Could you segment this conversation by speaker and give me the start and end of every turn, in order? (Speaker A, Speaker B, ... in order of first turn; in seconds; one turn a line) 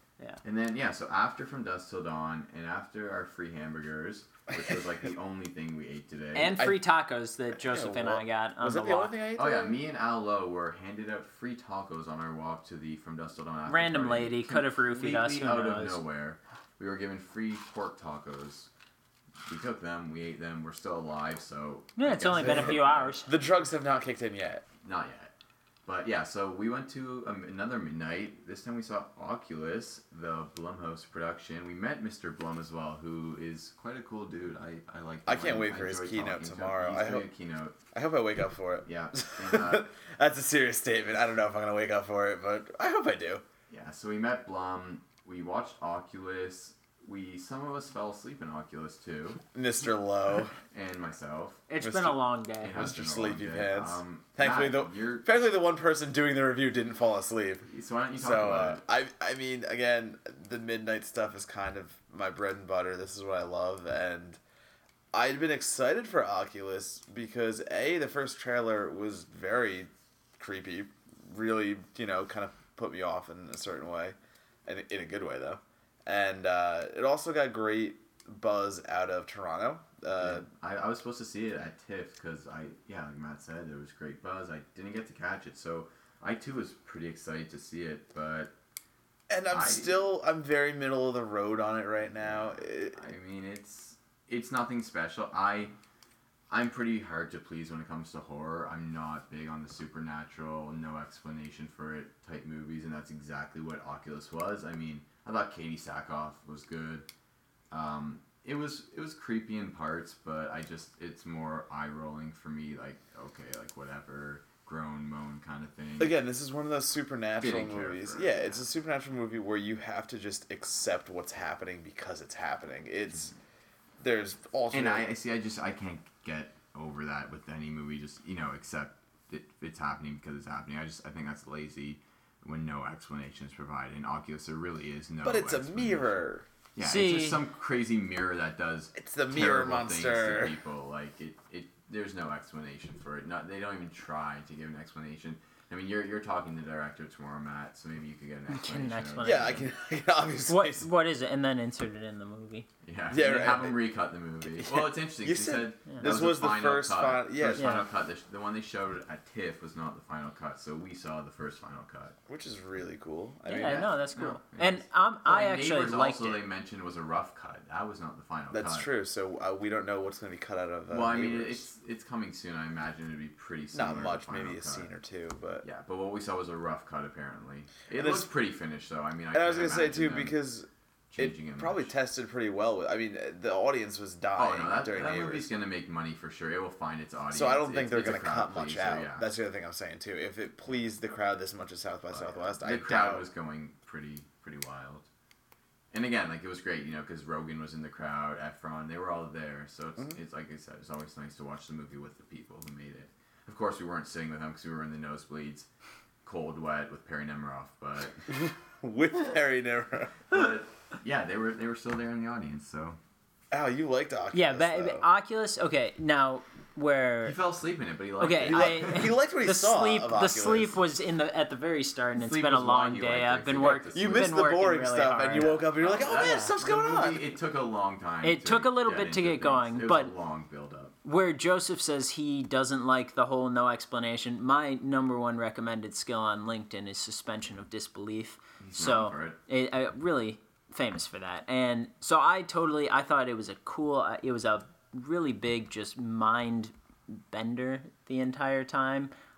Speaker A: 0.4-6.6
Speaker B: 6.3-9.1
Speaker C: 6.5-6.8
Speaker C: 7.6-9.8
Speaker A: 9.3-18.7
Speaker B: 13.7-16.0
Speaker A: 19.5-23.1
Speaker B: 22.0-23.3
Speaker C: 22.3-24.6
Speaker A: 24.8-25.3
Speaker A: 25.9-37.8
Speaker C: 35.3-37.3
Speaker C: 37.9-43.4
Speaker A: 38.9-39.9
Speaker A: 43.7-49.4
Speaker C: 49.5-50.5
Speaker A: 50.7-51.6
Speaker B: 51.7-52.9
Speaker C: 51.8-52.2
Speaker A: 52.6-55.3
Speaker C: 52.7-64.4
Speaker A: 57.7-58.8
Speaker C: 65.1-74.2
Speaker C: 74.7-80.5
Speaker A: 80.2-88.5
Speaker C: 89.3-93.0
Speaker A: 89.5-90.0
Speaker A: 92.2-95.7
Speaker A: 96.5-107.1
Speaker A: 107.7-116.2
Speaker C: 116.0-123.3
Speaker A: 117.4-118.6
Speaker C: 124.0-125.1
Speaker A: 124.7-136.2
Speaker C: 135.2-136.5
Speaker A: 136.8-149.7
Speaker B: 136.8-137.4
Speaker C: 138.9-140.6
Speaker B: 148.5-149.7
Speaker C: 149.2-150.9
Speaker B: 150.5-152.7
Speaker A: 152.8-162.2
Speaker C: 153.1-153.9
Speaker C: 154.6-157.9
Speaker B: 157.6-157.8
Speaker C: 162.3-163.9
Speaker B: 163.5-166.4
Speaker A: 163.6-168.9
Speaker C: 168.5-171.7
Speaker A: 170.9-174.9
Speaker C: 173.7-175.7
Speaker A: 175.6-180.4
Speaker C: 177.9-178.3
Speaker C: 179.3-185.5
Speaker A: 181.1-181.9
Speaker A: 184.4-189.3
Speaker C: 187.3-193.3
Speaker A: 192.1-195.1
Speaker A: 195.9-205.7
Speaker A: 206.2-208.3
Speaker C: 208.3-210.4
Speaker A: 210.3-213.0
Speaker C: 213.5-215.1
Speaker B: 214.3-217.4
Speaker A: 217.2-219.1
Speaker B: 218.2-226.5
Speaker C: 218.5-220.8
Speaker A: 222.2-224.3
Speaker C: 223.9-227.3
Speaker A: 225.4-230.9
Speaker B: 228.2-230.1
Speaker B: 231.0-249.1
Speaker A: 238.7-239.4